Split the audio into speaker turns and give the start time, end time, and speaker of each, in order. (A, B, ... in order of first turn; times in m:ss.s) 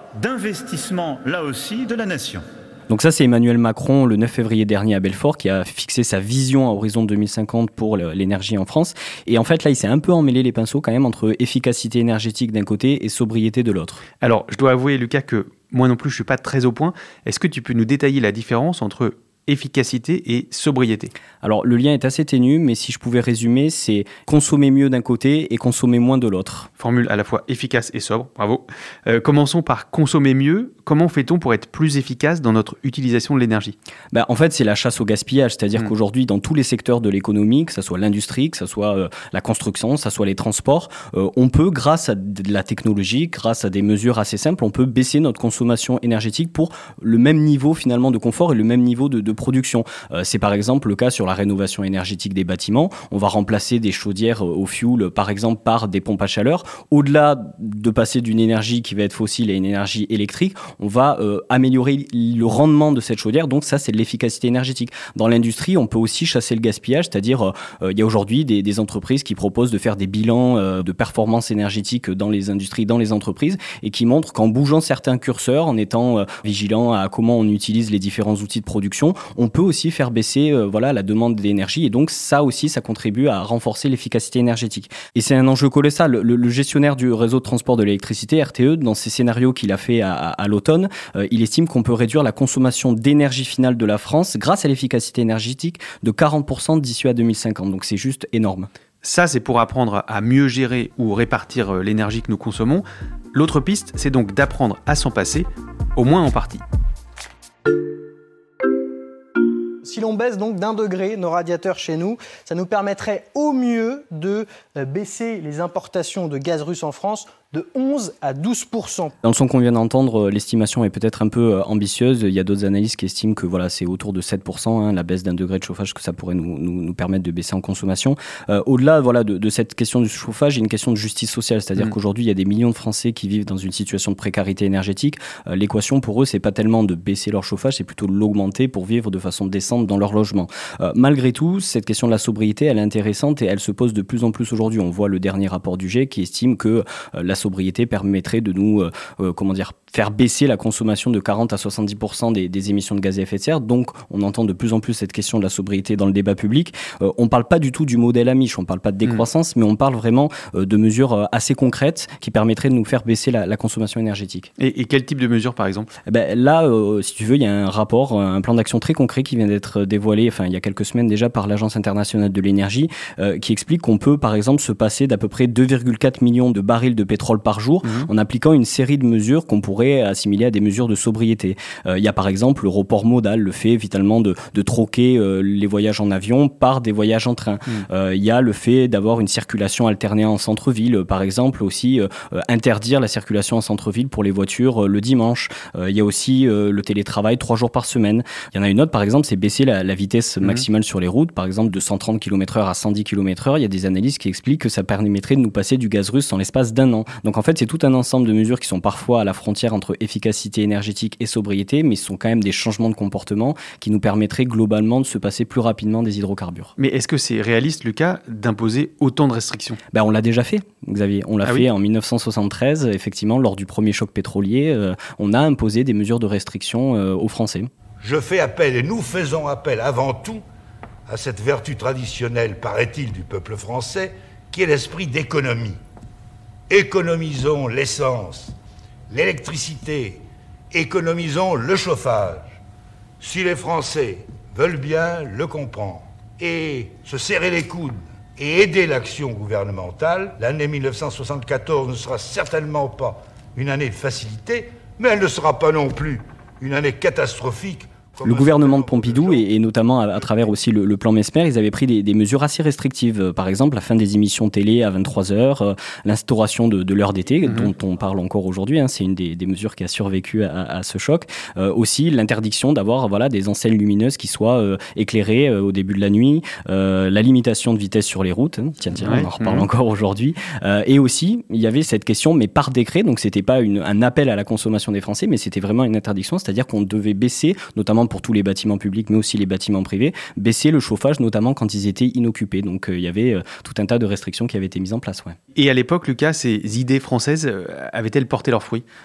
0:00.2-0:02.4 A
0:02.9-0:14.0 B
0:14.2-0:21.1 C
0:21.4-0:26.7 B
0:26.8-0:33.7 C
0:34.1-1:38.7 B
1:39.0-1:46.6 C
1:49.8-1:59.1 D
1:59.2-2:44.5 B
2:44.6-2:45.9 C
2:46.1-3:36.7 B
2:57.8-2:58.1 C
3:36.8-3:39.8 C
3:39.9-3:47.7 B
3:48.0-3:50.4 E
3:51.1-3:55.8 E
3:56.7-3:58.5 E
3:59.1-4:02.5 E
4:03.2-4:19.4 E
4:18.2-4:55.4 B
4:39.0-4:39.6 C
4:55.5-4:58.8 C